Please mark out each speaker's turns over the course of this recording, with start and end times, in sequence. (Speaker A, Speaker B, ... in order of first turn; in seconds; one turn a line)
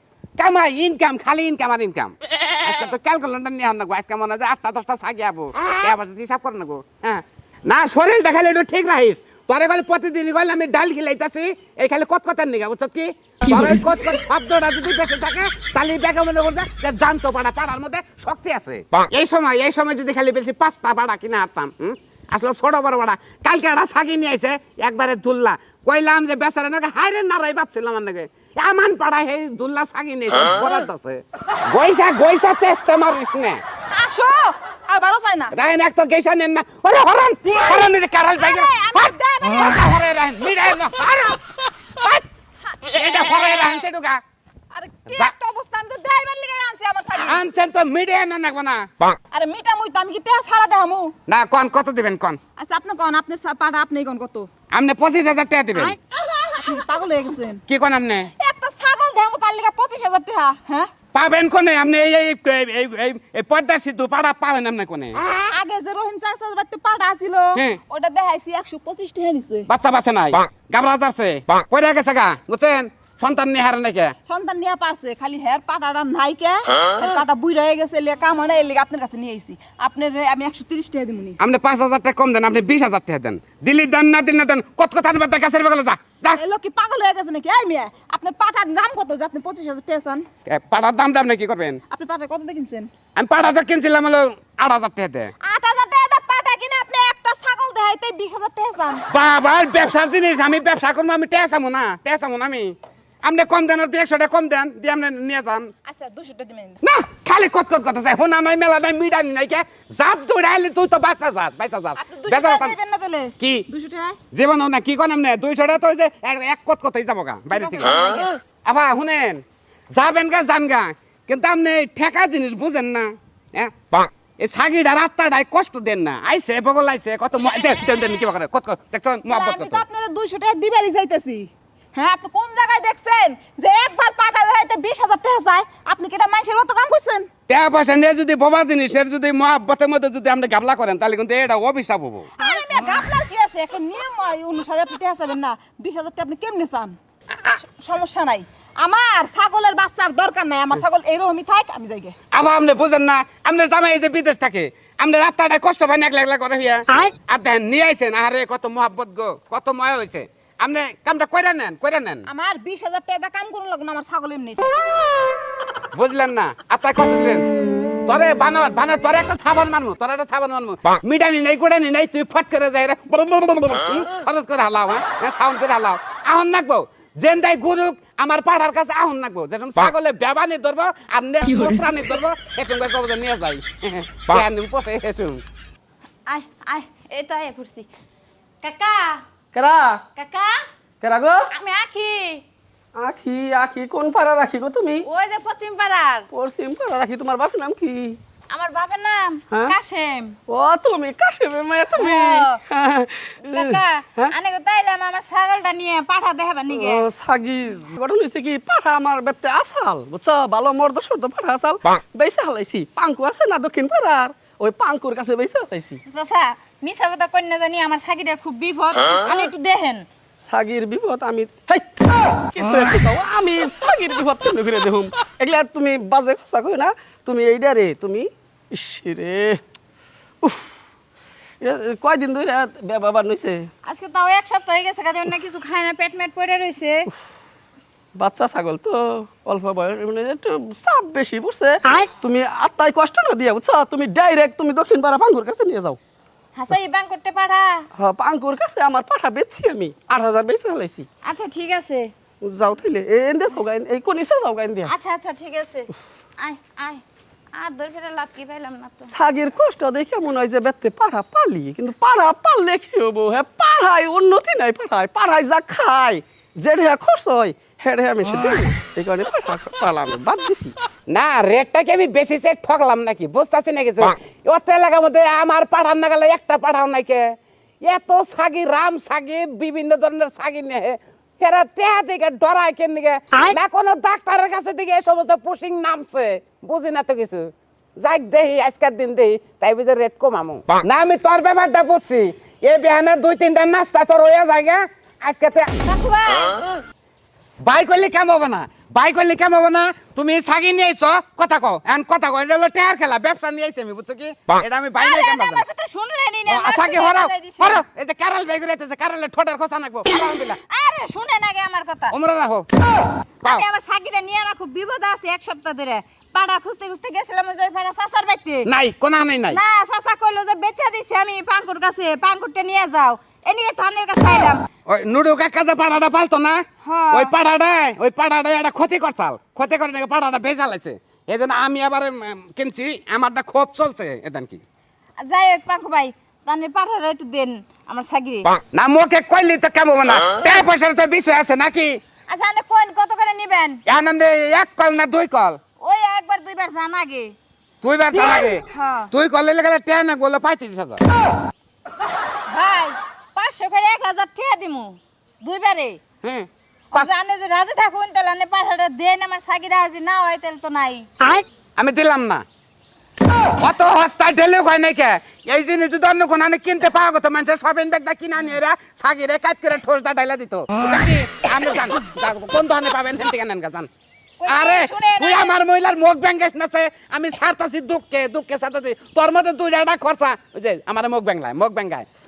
Speaker A: 0.4-33.6
Speaker B: 33.9-35.5
Speaker A: 35.5-41.4
Speaker B: 37.5-39.9
Speaker B: 42.0-42.8
Speaker A: 42.9-44.2
Speaker B: 44.7-47.4
Speaker A: 47.1-49.1
Speaker B: 49.3-51.1
Speaker A: 51.3-52.4
Speaker B: 52.6-54.5
Speaker A: 54.7-56.0
Speaker B: 56.4-57.6
Speaker A: 57.7-58.3
Speaker B: 58.4-60.9
Speaker A: 61.1-65.2
Speaker B: 65.5-69.7
Speaker A: 67.5-67.8
Speaker A: 69.7-74.1
Speaker B: 74.2-81.4
Speaker A: 81.4-86.4
Speaker B: 86.3-90.3
Speaker A: 90.5-91.8
Speaker B: 91.9-92.9
Speaker A: 93.2-95.3
Speaker B: 95.4-99.0
Speaker A: 99.1-105.7
Speaker B: 105.8-106.8
Speaker A: 106.8-112.7
Speaker B: 112.0-114.2
Speaker A: 113.4-113.7
Speaker A: 114.3-118.0
Speaker B: 117.5-118.3
Speaker A: 118.6-129.8
Speaker B: 129.3-137.3
Speaker A: 137.5-142.3
Speaker C: 142.4-142.7
Speaker B: 142.4-147.0
Speaker B: 147.5-152.2
Speaker A: 152.3-162.3
Speaker B: 162.3-164.7
Speaker A: 165.9-167.5
Speaker A: 168.1-185.4
Speaker C: 186.3-187.9
Speaker C: 188.6-189.2
Speaker D: 189.5-190.1
Speaker C: 190.2-190.6
Speaker D: 191.0-191.5
Speaker C: 191.5-192.4
Speaker D: 192.9-195.1
Speaker C: 195.0-196.3
Speaker D: 196.3-198.2
Speaker C: 198.5-200.3
Speaker D: 200.5-204.3
Speaker C: 201.9-202.6
Speaker C: 203.4-207.1
Speaker D: 206.7-216.0
Speaker C: 216.1-220.1
Speaker D: 220.4-229.6
Speaker D: 231.6-233.7
Speaker C: 233.8-237.1
Speaker D: 238.1-246.0
Speaker C: 246.5-247.8
Speaker D: 247.9-251.1
Speaker C: 251.2-252.1
Speaker D: 252.4-254.9
Speaker C: 254.8-257.0
Speaker C: 257.5-259.1
Speaker D: 259.1-270.7
Speaker A: 271.1-295.8
Speaker C: 295.8-296.7
Speaker A: 297.6-305.6
Speaker C: 305.0-307.8
Speaker A: 306.4-310.6
Speaker C: 310.7-312.1
Speaker A: 312.1-312.7
Speaker C: 313.4-318.7
Speaker A: 318.6-319.6
Speaker C: 319.5-324.6
Speaker A: 324.9-334.6
Speaker C: 326.8-327.3
Speaker C: 335.2-338.5
Speaker A: 338.7-342.0
Speaker C: 342.3-343.8
Speaker A: 343.9-345.6
Speaker C: 345.8-347.3
Speaker A: 347.8-351.0
Speaker C: 348.1-349.1
Speaker C: 352.5-356.0
Speaker A: 356.2-357.1
Speaker C: 356.9-361.4
Speaker A: 361.8-362.4
Speaker A: 363.6-373.9
Speaker C: 374.4-375.6
Speaker A: 374.5-382.1